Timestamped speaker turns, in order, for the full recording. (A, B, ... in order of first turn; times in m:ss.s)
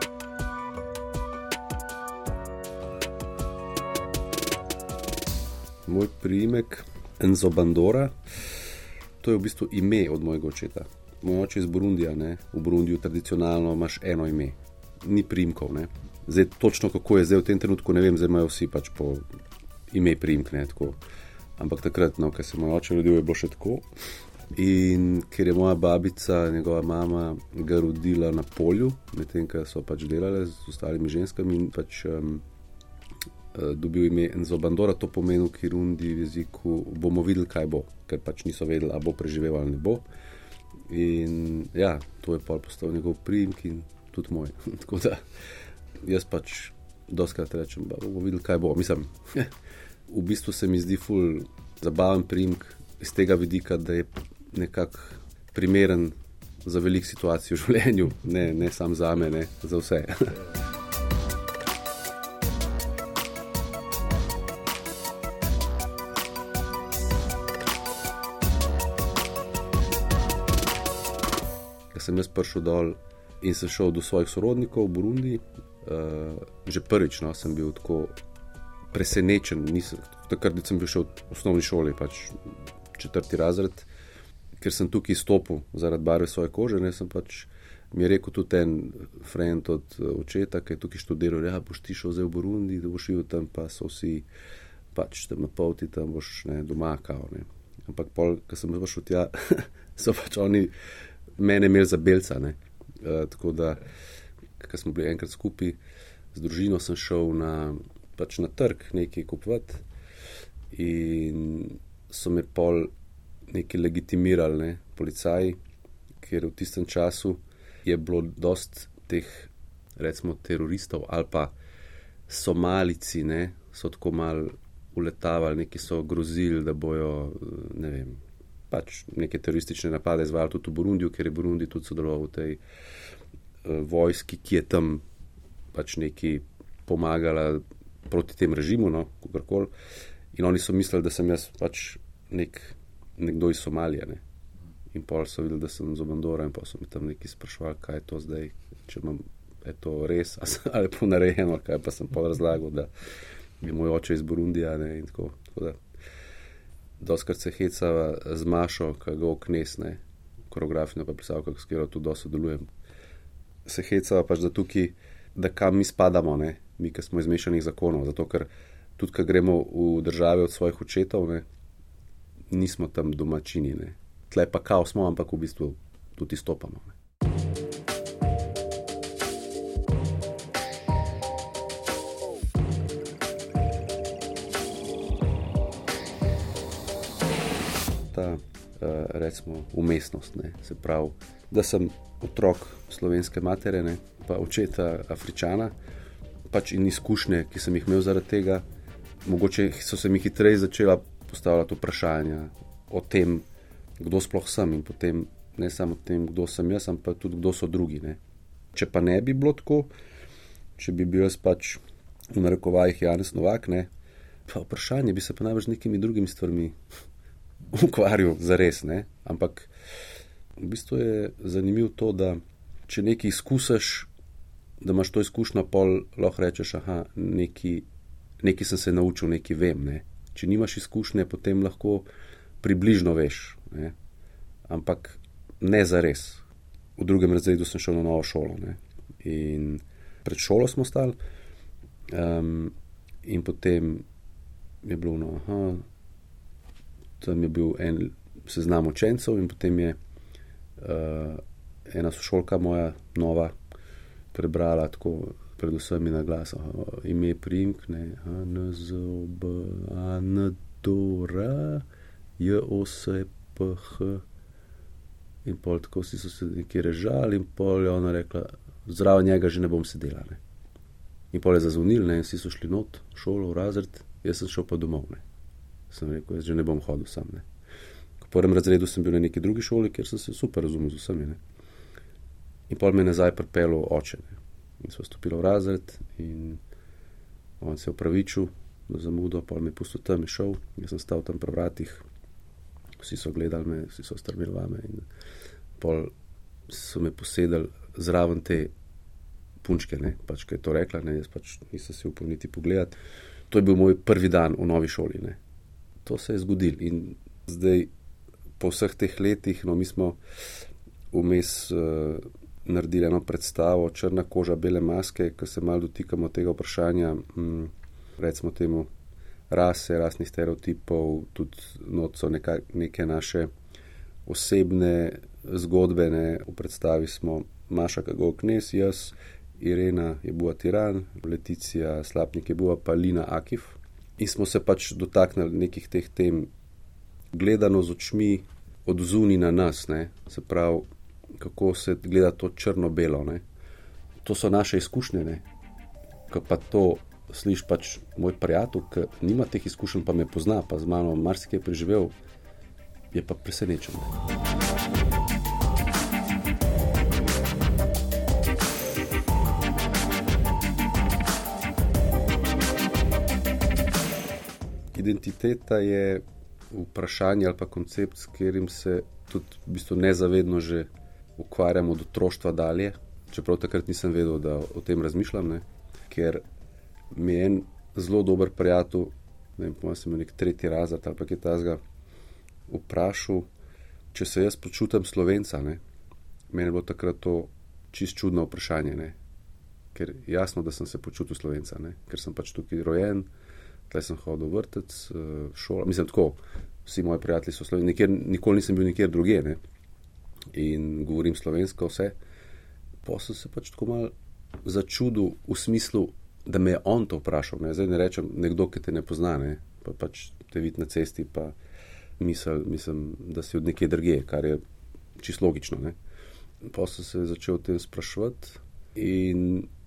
0:05.9-0:08.1 A
0:09.2-0:19.2 A
0:19.9-0:21.0 A
0:21.6-0:23.9 A
0:24.6-0:32.4 A
0:33.5-0:40.1 A
0:40.9-0:45.2 A
0:46.0-0:49.5 A
0:50.1-1:00.4 A
1:11.9-1:18.2 A
1:18.9-1:23.9 A
1:24.6-1:34.3 A
1:34.9-1:40.7 A
1:41.4-1:43.8 A
1:44.6-1:45.8 A
1:46.3-1:49.8 A
1:50.7-1:52.9 A
1:53.5-1:55.6 A
1:56.2-2:01.5 A
2:02.3-2:12.6 A
2:13.6-2:15.0 A
2:15.7-2:19.7 A
2:20.3-2:24.2 A
2:24.9-2:32.9 A
2:33.6-2:35.8 A
2:37.0-2:42.7 A
2:43.7-2:51.4 A
2:52.5-2:57.0 A
3:08.1-3:15.7 A
3:16.5-3:18.7 A
3:19.2-3:23.5 A
3:24.0-3:28.2 A
3:28.7-3:29.9 A
3:30.8-3:31.8 A
3:32.3-3:33.9 A
3:34.5-3:36.8 A
3:37.7-3:39.7 A
3:40.6-3:44.1 A
3:44.8-3:47.9 A
3:48.4-3:52.1 A
3:52.6-3:54.0 A
3:54.7-3:56.4 A
3:57.0-4:01.2 A
4:02.1-4:04.0 A
4:04.8-4:05.8 A
4:07.2-4:10.0 A
4:10.8-4:13.6 A
4:14.3-4:21.8 A
4:22.4-4:24.2 A
4:25.4-4:30.4 A
4:31.3-4:35.2 A
4:35.9-4:37.4 A
4:38.2-4:41.4 A
4:42.7-4:46.6 A
4:47.6-4:52.0 A
4:53.0-4:55.1 A
4:55.8-4:56.1 A
4:56.7-4:58.7 A
4:59.6-5:03.0 A
5:03.5-5:05.4 A
5:06.0-5:07.9 A
5:08.6-5:10.2 A
5:11.1-5:18.9 A
5:19.5-5:23.5 A
5:24.3-5:36.5 A
5:37.3-5:43.4 A
5:44.2-5:45.4 A
5:46.3-5:52.1 A
5:53.1-5:54.1 A
6:04.9-6:16.4 A
6:17.1-6:21.8 A
6:22.7-6:23.5 A
6:24.1-6:25.8 A
6:26.5-6:29.2 A
6:29.9-6:33.3 A
6:33.9-6:39.6 A
6:40.5-6:42.2 A
6:43.0-6:51.6 A
6:52.2-6:54.6 A
6:55.2-6:56.0 A
6:56.6-6:59.7 A